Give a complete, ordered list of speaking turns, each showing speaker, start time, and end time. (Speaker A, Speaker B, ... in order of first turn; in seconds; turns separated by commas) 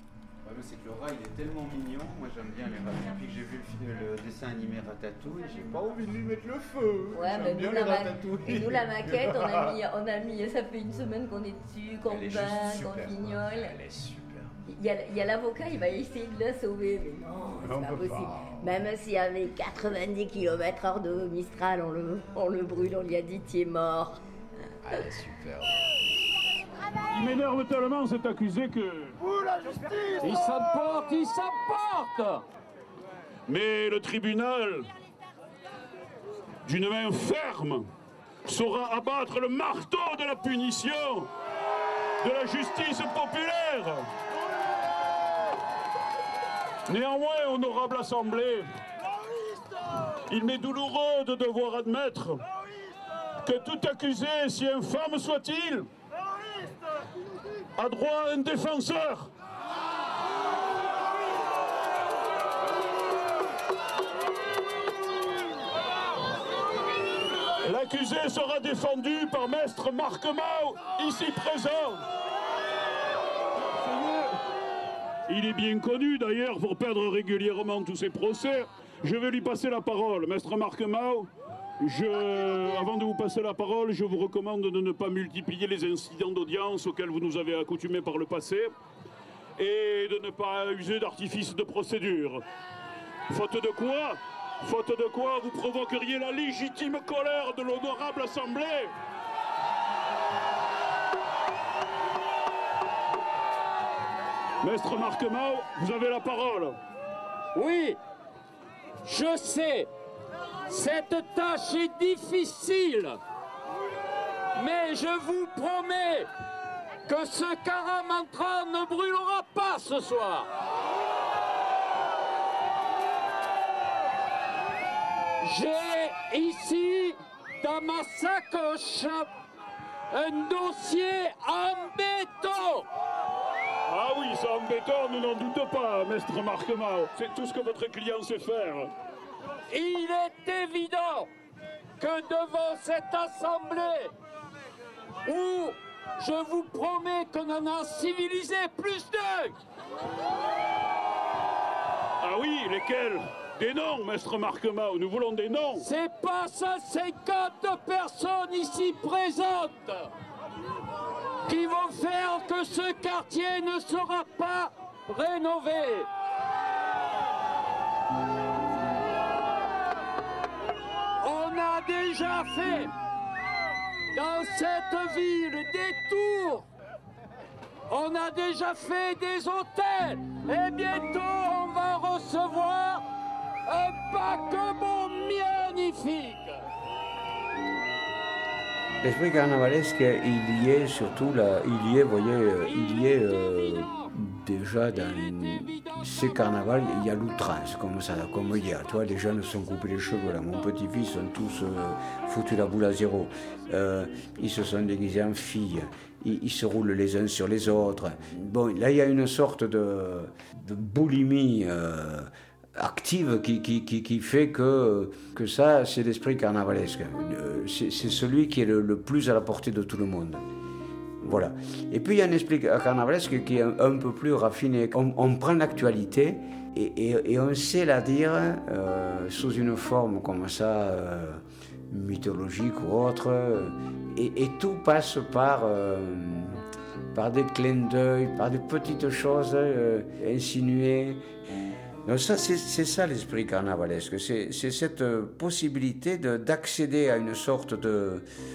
Speaker A: 0.4-9.7, Speaker B: 7.1-13.8, Speaker A: 12.1-14.6, Speaker B: 14.7-24.2, Speaker A: 17.6-18.6, Speaker A: 24.8-25.8, Speaker C: 27.1-29.2, Speaker C: 30.2-31.8, Speaker C: 33.5-34.9, Speaker C: 36.6-37.9, Speaker C: 38.5-41.3, Speaker C: 42.2-44.1, Speaker C: 46.9-48.7, Speaker C: 50.3-52.4, Speaker C: 53.4-55.9, Speaker C: 57.8-59.3, Speaker C: 67.6-72.0, Speaker C: 73.7-74.3, Speaker C: 75.3-81.3, Speaker C: 81.8-88.7, Speaker C: 89.6-92.4, Speaker C: 93.3-98.9, Speaker C: 104.6-106.8, Speaker D: 109.1-109.8, Speaker D: 110.7-113.0, Speaker D: 114.6-116.2, Speaker D: 117.1-120.5, Speaker D: 125.4-129.3, Speaker D: 130.1-132.8, Speaker C: 133.9-138.9, Speaker D: 139.7-141.3, Speaker D: 142.0-144.1, Speaker D: 145.3-149.5, Speaker C: 152.2-155.9, Speaker D: 155.8-159.8, Speaker D: 161.5-166.1, Speaker D: 171.2-172.9, Speaker D: 174.2-176.6, Speaker D: 177.9-183.0, Speaker D: 183.7-186.4, Speaker E: 189.0-220.4, Speaker E: 221.2-236.6, Speaker E: 237.1-241.2, Speaker E: 242.1-248.2